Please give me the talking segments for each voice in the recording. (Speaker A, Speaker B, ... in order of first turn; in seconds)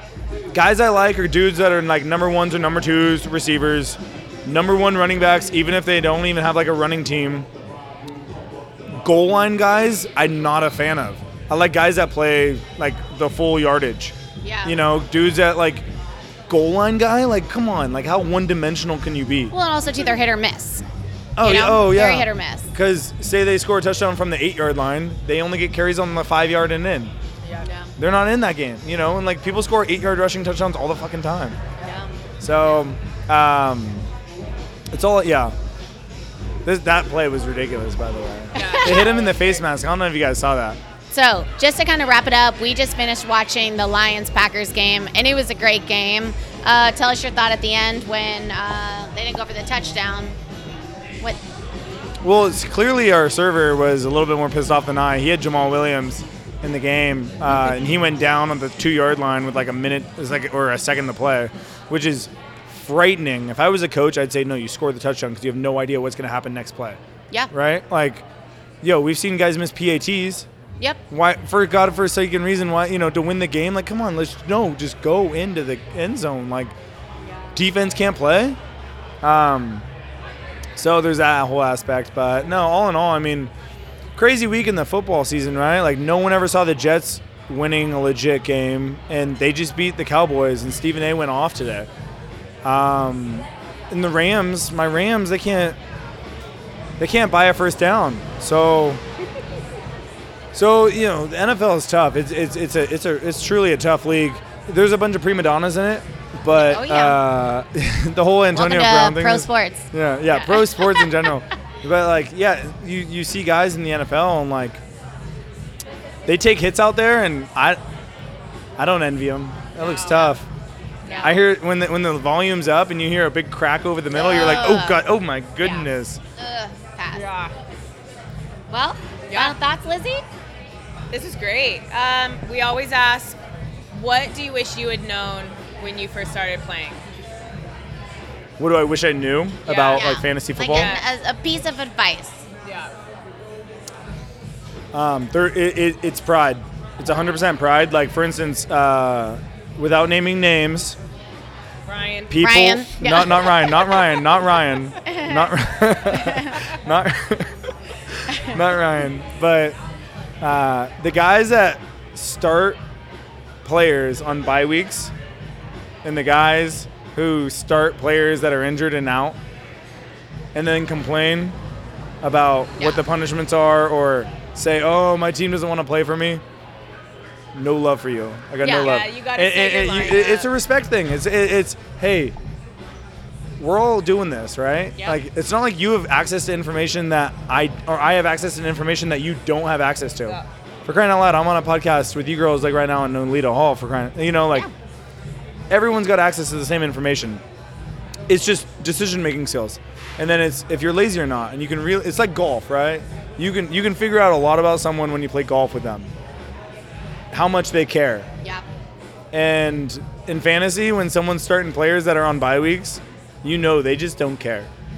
Speaker A: 0.5-7.5, 9.0-15.8, 16.5-19.5, 21.4-27.1, 28.0-31.6, 32.4-34.1, 34.9-35.5, 36.6-40.8, 52.2-67.0, 67.5-68.2, 68.8-70.5, 71.1-76.7, 77.5-78.6, 79.2-79.8, 80.8-83.5, 84.2-91.9, 92.6-95.8, 97.0-99.0, 100.5-114.8, 116.3-117.8, 118.8-120.5, 121.2-126.2, 138.6-140.9, 144.9-151.0, 152.3-157.5, 158.4-159.8, 160.4-162.8, 163.6-165.1, 166.0-169.4, 170.5-171.6, 172.2-176.4, 177.5-182.3, 183.6-194.7, 195.7-197.4, 198.3-206.1, 207.3-208.3, 209.3-214.7
Speaker B: 14.4-14.8, 19.5-20.8, 21.4-22.7, 27.6-27.9, 31.8-32.1, 38.5-39.1, 41.1-50.4, 106.5-107.2, 108.5-111.3, 124.1-125.1, 125.6-127.3, 128.7-130.2, 139.9-142.4, 152.3-154.3, 155.0-155.5, 156.1-156.7, 172.8-173.0, 178.6-179.0
Speaker C: 38.5-39.6, 119.8-120.3, 121.0-121.3, 127.1-127.5, 129.3-129.6, 131.1-133.4, 133.9-137.0, 139.7-141.1, 142.6-142.9, 151.9-152.4, 178.6-180.5